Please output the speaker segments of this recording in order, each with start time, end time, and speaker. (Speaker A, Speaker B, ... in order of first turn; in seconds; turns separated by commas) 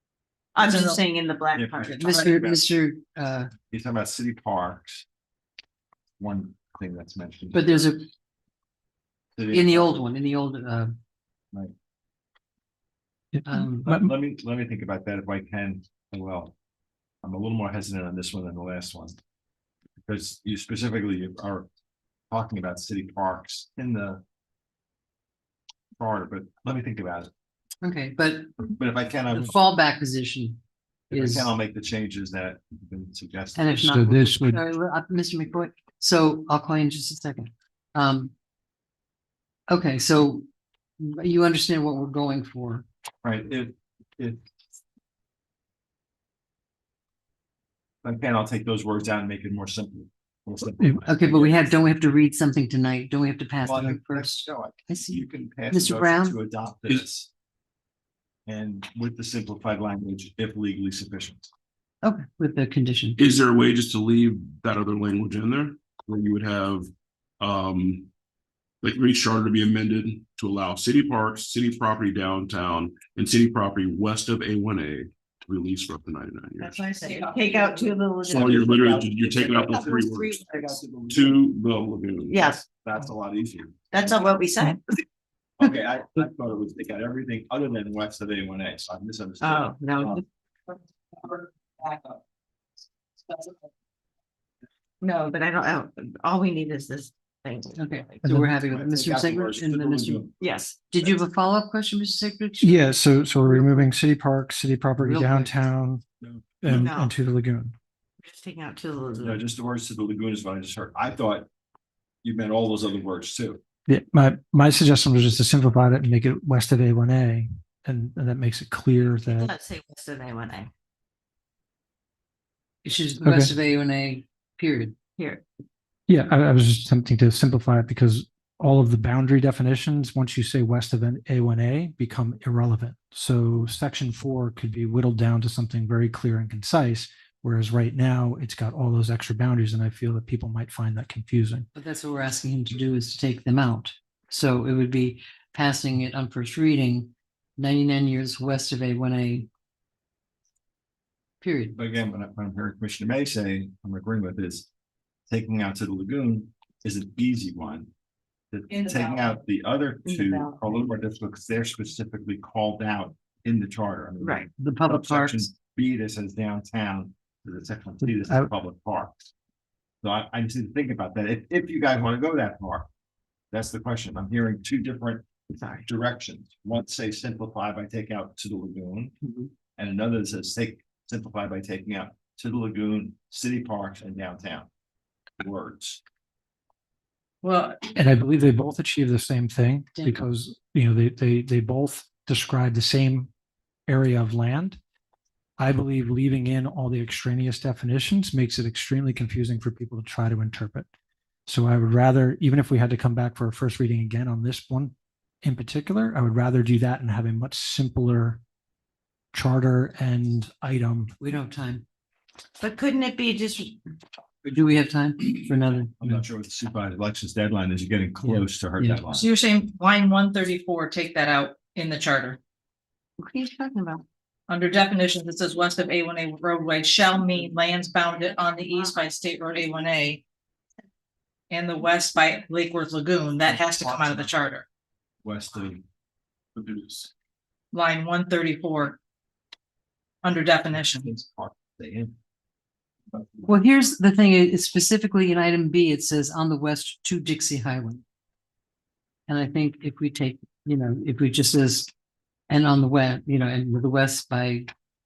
Speaker A: 0.6-2.4, Speaker B: 0.6-1.0, Speaker C: 1.5-2.6, Speaker D: 2.0-3.5, Speaker C: 3.7-5.0, Speaker C: 6.2-7.9, Speaker D: 7.5-8.1, Speaker C: 9.4-10.1, Speaker D: 9.5-10.9, Speaker E: 13.3-14.1, Speaker D: 13.5-13.9, Speaker C: 13.8-16.5, Speaker C: 17.2-19.2, Speaker C: 20.0-21.7, Speaker C: 22.3-24.2, Speaker C: 26.0-27.3, Speaker D: 27.8-28.5, Speaker C: 28.8-29.6, Speaker D: 29.3-30.6, Speaker C: 31.1-33.8, Speaker D: 31.1-31.5, Speaker D: 33.6-38.3, Speaker E: 33.8-34.6, Speaker D: 39.7-40.5, Speaker D: 41.0-42.9, Speaker C: 43.2-44.4, Speaker C: 48.0-51.8, Speaker D: 51.0-56.4, Speaker C: 53.6-57.3, Speaker C: 58.5-61.5, Speaker D: 62.0-63.2, Speaker F: 63.2-68.1, Speaker F: 68.8-76.9, Speaker A: 76.6-80.8, Speaker B: 77.0-78.0, Speaker C: 78.3-81.4, Speaker F: 78.3-80.4, Speaker F: 81.1-82.5, Speaker A: 82.2-82.6, Speaker C: 82.5-83.9, Speaker A: 83.9-85.0, Speaker C: 85.6-90.2, Speaker A: 89.4-90.2, Speaker A: 95.0-98.2, Speaker D: 97.8-100.3, Speaker E: 98.2-98.5, Speaker C: 98.6-100.3, Speaker A: 100.4-100.8, Speaker D: 100.9-103.0, Speaker E: 102.6-106.0, Speaker D: 105.0-105.5, Speaker C: 106.2-106.7, Speaker E: 106.6-107.8, Speaker A: 106.7-107.2, Speaker A: 108.2-109.4, Speaker C: 109.2-111.5, Speaker C: 112.2-113.6, Speaker E: 113.9-119.5, Speaker A: 119.3-120.7, Speaker D: 122.8-125.0, Speaker E: 123.2-123.5, Speaker A: 125.2-125.4, Speaker E: 126.1-141.7, Speaker D: 141.8-149.5, Speaker D: 151.4-151.8, Speaker C: 151.7-154.7, Speaker C: 155.3-157.9, Speaker C: 158.5-169.3, Speaker B: 158.7-159.4, Speaker A: 160.1-160.9, Speaker A: 164.2-164.5, Speaker D: 164.6-165.5, Speaker C: 170.0-172.9, Speaker C: 173.5-175.3, Speaker A: 175.5-175.9, Speaker C: 175.8-179.2, Speaker C: 179.8-184.7, Speaker C: 185.4-186.0, Speaker B: 187.4-187.9, Speaker E: 188.0-193.3, Speaker D: 189.9-190.2, Speaker E: 193.9-194.8, Speaker E: 195.6-200.9, Speaker E: 201.5-208.4, Speaker E: 209.3-211.1, Speaker D: 211.2-211.8, Speaker A: 212.6-213.8, Speaker D: 214.4-216.2, Speaker C: 216.0-219.3, Speaker D: 218.2-219.1, Speaker B: 219.1-222.4, Speaker A: 223.2-224.0, Speaker B: 224.5-230.2, Speaker B: 231.5-234.7, Speaker C: 233.5-234.3, Speaker C: 235.2-235.8, Speaker C: 236.6-237.1, Speaker B: 237.7-239.0, Speaker B: 240.2-241.1, Speaker C: 240.7-242.2, Speaker D: 243.5-248.0, Speaker D: 249.3-251.9, Speaker D: 252.5-254.7